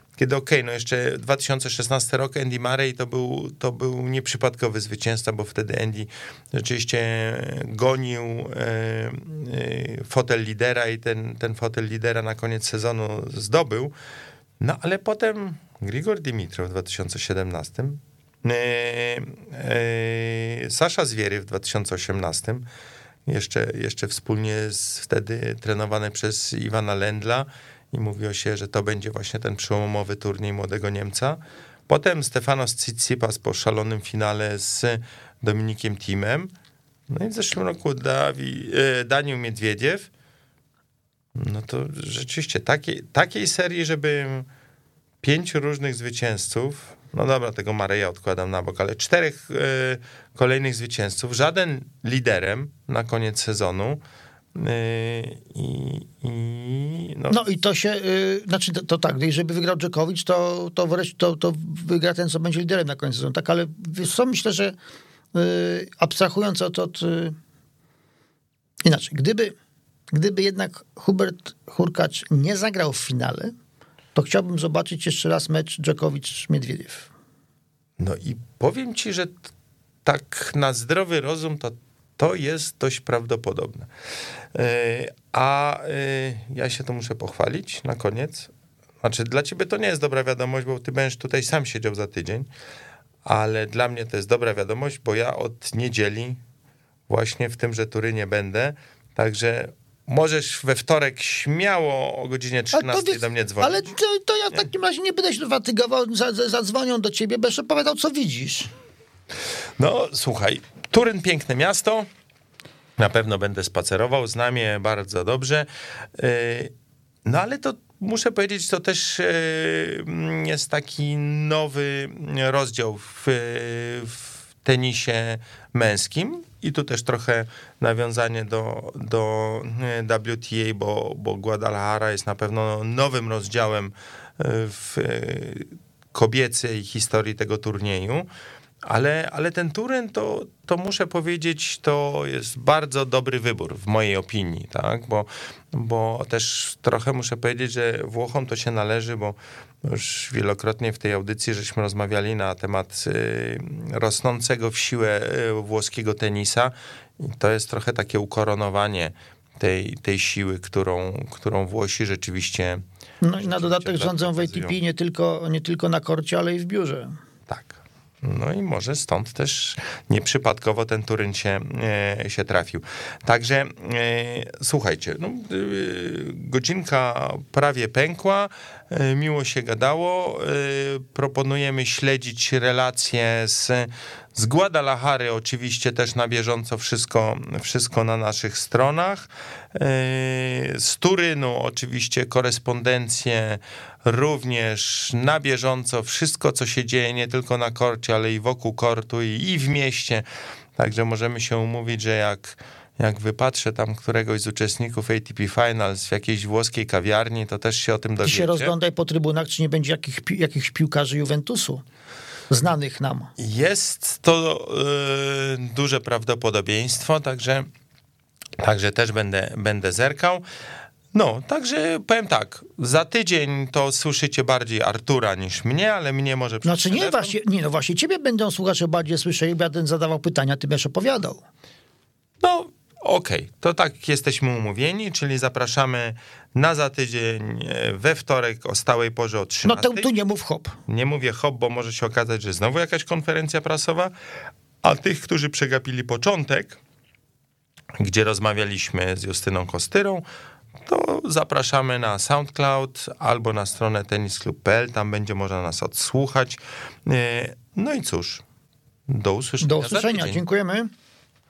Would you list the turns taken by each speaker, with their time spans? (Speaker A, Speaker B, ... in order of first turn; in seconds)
Speaker A: 0.2-13.9, 14.6-22.6, 23.3-36.5, 37.1-40.1, 41.4-44.5, 45.2-54.0, 54.5-57.4, 78.0-79.5, 80.0-83.9, 84.5-88.5, 89.0-92.5, 93.2-96.4, 97.1-103.9, 109.8-112.1, 113.0-116.7, 117.2-138.3, 138.8-162.8, 163.4-164.8, 167.5-200.3, 200.8-208.7, 213.4-217.7, 218.6-220.4, 221.1-227.3, 232.4-240.1, 240.9-244.1, 244.8-246.8, 248.0-250.3, 250.8-258.4, 259.1-260.4
Speaker B: 57.3-64.8, 65.3-67.4, 68.8-69.5, 70.1-73.5, 74.2-77.1, 102.7-108.7, 163.2-167.2, 208.2-211.8, 212.5-213.3, 226.6-231.4, 239.7-240.8, 259.6-260.9